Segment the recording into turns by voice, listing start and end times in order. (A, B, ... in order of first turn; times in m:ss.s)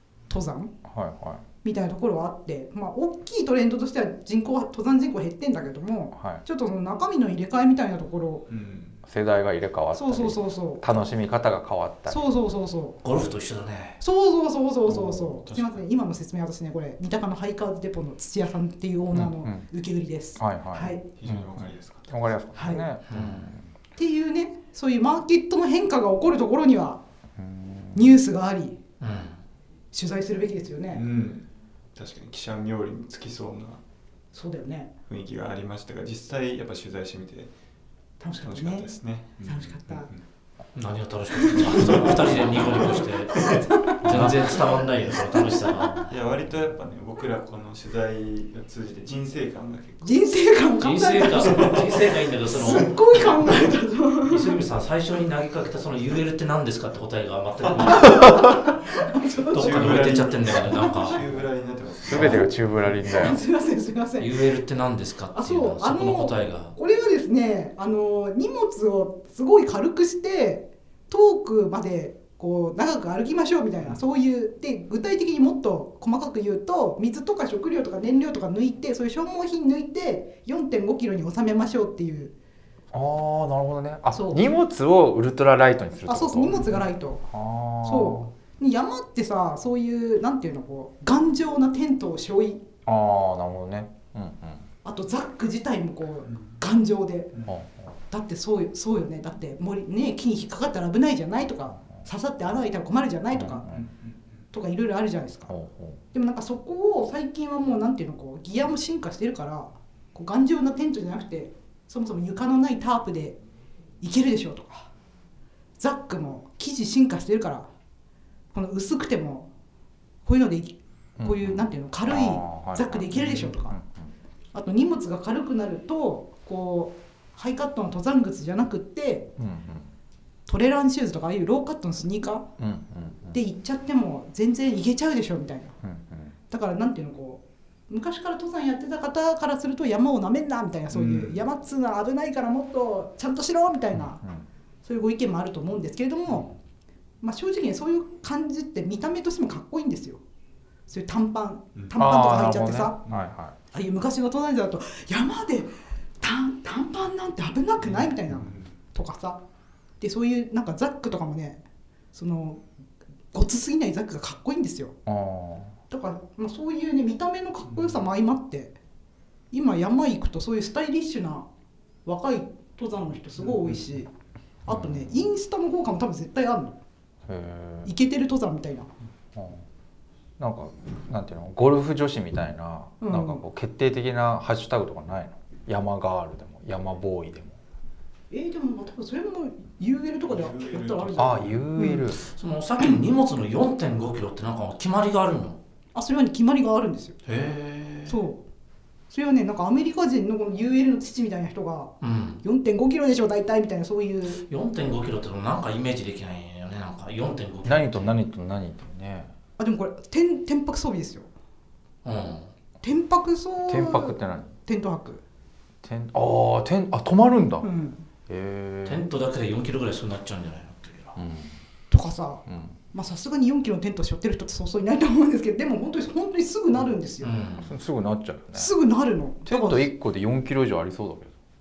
0:00.3-0:00.7 A
0:00.8-0:01.4 B
0:01.6-0:08.5 A
0:06.2-0:06.4 B
0:08.5-0:09.0 C
0:09.1-0:12.2 B
0:10.0-0:10.9 A
0:12.1-0:13.3 A
0:13.0-0:14.0 D
0:14.0-0:21.0 A
0:14.8-0:15.9 C
0:19.1-0:19.7 B
0:20.4-0:23.7 B
0:21.2-0:22.3 C
0:22.6-0:22.8 A
0:23.1-0:23.5 D
0:24.0-0:27.0 A
0:27.4-0:28.2 B
0:27.9-0:28.8 A
0:29.0-0:29.4 D
0:29.9-0:31.0 A
0:30.9-0:33.8 C
0:34.3-0:34.9 A
0:35.1-0:37.5 C
0:38.2-0:38.9 A
0:38.4-0:40.2 C
0:39.4-0:40.1 A
0:40.8-0:46.1 D
0:41.4-0:44.5 A
0:41.8-0:43.0 C
0:44.1-0:44.5 B
0:44.1-0:44.6 C
0:46.1-0:50.2 C
0:50.0-0:54.6 A
0:50.8-0:53.0 D
0:51.4-0:52.9 C
0:54.3-0:58.4 D
0:57.8-1:00.0 A
0:58.2-0:58.5 B
0:59.5-1:01.3 D
0:59.6-1:02.5 C
1:00.7-1:01.1 A
1:02.0-1:03.4 B
1:02.1-1:02.4 D
1:02.2-1:02.5 A
1:03.0-1:04.4 A
1:04.2-1:06.7 D
1:05.3-1:22.3 A
1:22.9-1:26.8 B
1:24.1-1:24.5 A
1:26.1-1:27.2 A
1:27.3-1:28.3 B
1:27.8-1:32.6 A
1:32.9-1:34.7 B
1:34.8-1:37.3 A
1:36.3-1:36.6 C
1:37.5-1:37.9 B
1:38.1-1:43.6 A
1:43.3-1:43.8 B
1:43.7-1:44.4 C
1:44.5-1:45.5 A
1:45.5-1:46.0 B
1:46.1-1:53.4 A
1:54.0-1:54.9 A
1:55.8-1:57.7 A
1:58.5-1:59.5 A
2:00.2-2:03.8 A
2:01.2-2:04.1 B
2:04.5-2:09.3 A
2:09.4-2:09.9 B
2:10.5-2:12.5 A
2:12.6-2:13.4 B
2:13.3-2:15.8 A
2:15.8-2:16.3 B
2:16.5-2:24.2 A
2:20.9-2:21.4 C
2:24.0-2:24.5 B
2:24.8-2:26.5 A
2:27.2-2:30.2 A
2:30.9-2:33.0 A
2:32.0-2:33.6 B
2:33.7-2:39.4 A
2:37.8-2:38.7 C
2:40.0-2:41.6 A
2:42.1-2:42.6 A
2:43.3-2:45.0 A
2:45.1-2:45.7 B
2:45.9-2:48.8 A
2:47.7-2:48.0 C
2:49.5-2:51.5 A
2:52.0-2:54.1 A
2:53.4-2:53.8 C
2:54.6-2:56.8 A
2:54.7-2:55.2 B
2:57.3-2:57.9 B
2:57.8-2:58.9 A
2:59.4-2:59.6 B
3:00.4-3:07.6 B
3:03.0-3:03.4 A
3:08.3-3:12.1 A
3:10.3-3:11.7 C
3:11.2-3:12.2 B
3:12.2-3:15.6 D
3:15.9-3:17.2 A
3:17.3-3:18.2 D
3:18.1-3:18.4 A
3:19.1-3:24.4 A
3:22.0-3:22.4 D
3:24.4-3:28.2 D
3:27.6-3:29.3 B
3:29.6-3:31.3 A
3:32.0-3:32.5 D
3:32.8-3:35.2 A
3:33.7-3:34.6 B
3:35.8-3:37.7 B
3:37.6-3:38.0 A
3:38.3-3:39.1 B
3:38.8-3:41.2 D
3:41.2-3:41.6 B
3:41.9-3:47.3 A
3:42.5-3:42.8 B
3:47.2-3:47.7 D
3:47.6-3:48.7 B
3:48.5-3:49.9 A
3:49.5-3:51.3 B